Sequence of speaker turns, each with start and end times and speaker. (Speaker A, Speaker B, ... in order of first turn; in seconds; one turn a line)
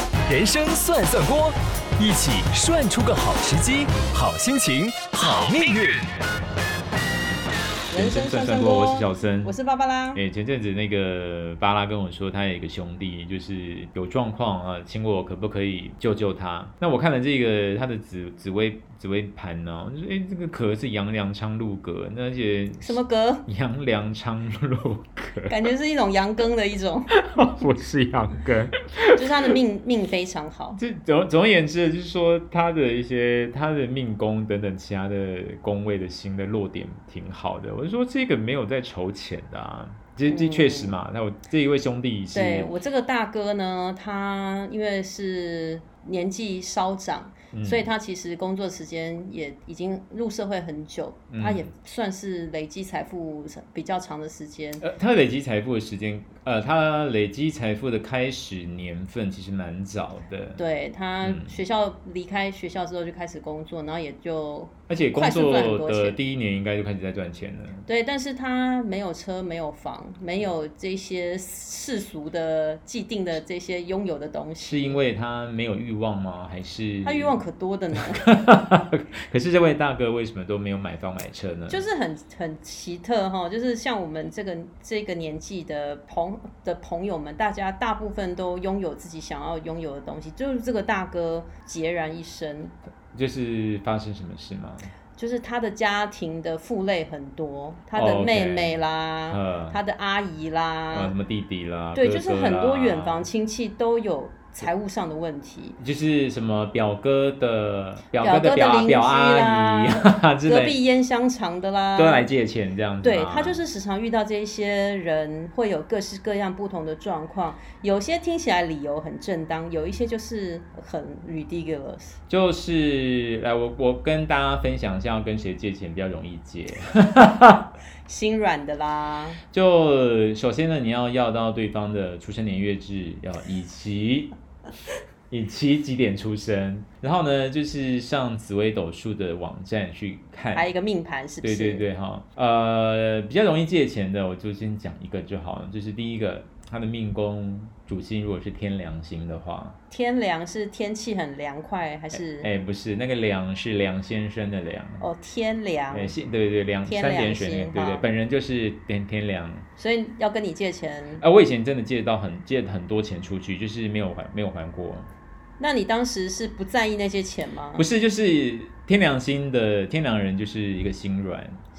Speaker A: 0.3-6.1
Speaker B: 7.9-10.2
Speaker C: 7.9-9.6
Speaker C: 10.1-25.6
Speaker B: 22.8-23.5
Speaker B: 25.5-27.1
Speaker C: 27.1-29.5
Speaker B: 29.1-30.8
Speaker C: 30.8-42.7
Speaker B: 40.3-41.0
Speaker B: 42.3-54.8
Speaker C: 47.5-47.9
Speaker C: 51.3-51.6
Speaker C: 54.8-60.6
Speaker B: 60.6-66.2
Speaker C: 61.2-61.6
Speaker C: 64.9-67.9
Speaker B: 67.9-75.0
Speaker C: 74.6-77.4
Speaker B: 77.0-78.2
Speaker C: 78.0-81.8
Speaker B: 81.7-92.8
Speaker C: 93.1-94.9
Speaker B: 95.2-101.1
Speaker C: 97.9-98.8
Speaker C: 99.3-99.8
Speaker C: 100.9-103.3
Speaker B: 102.0-105.8
Speaker C: 105.8-110.8
Speaker B: 108.2-112.3
Speaker C: 112.0-113.6
Speaker B: 113.0-122.2
Speaker C: 122.3-127.7
Speaker B: 128.1-129.4
Speaker C: 129.5-134.3
Speaker C: 135.3-140.7
Speaker B: 140.5-141.8
Speaker C: 141.4-149.8
Speaker B: 149.9-152.5
Speaker C: 152.1-155.1
Speaker B: 155.0-156.1
Speaker C: 155.9-159.7
Speaker B: 156.8-158.1
Speaker B: 159.8-161.2
Speaker C: 161.2-165.1
Speaker B: 165.6-167.8
Speaker C: 167.8-171.6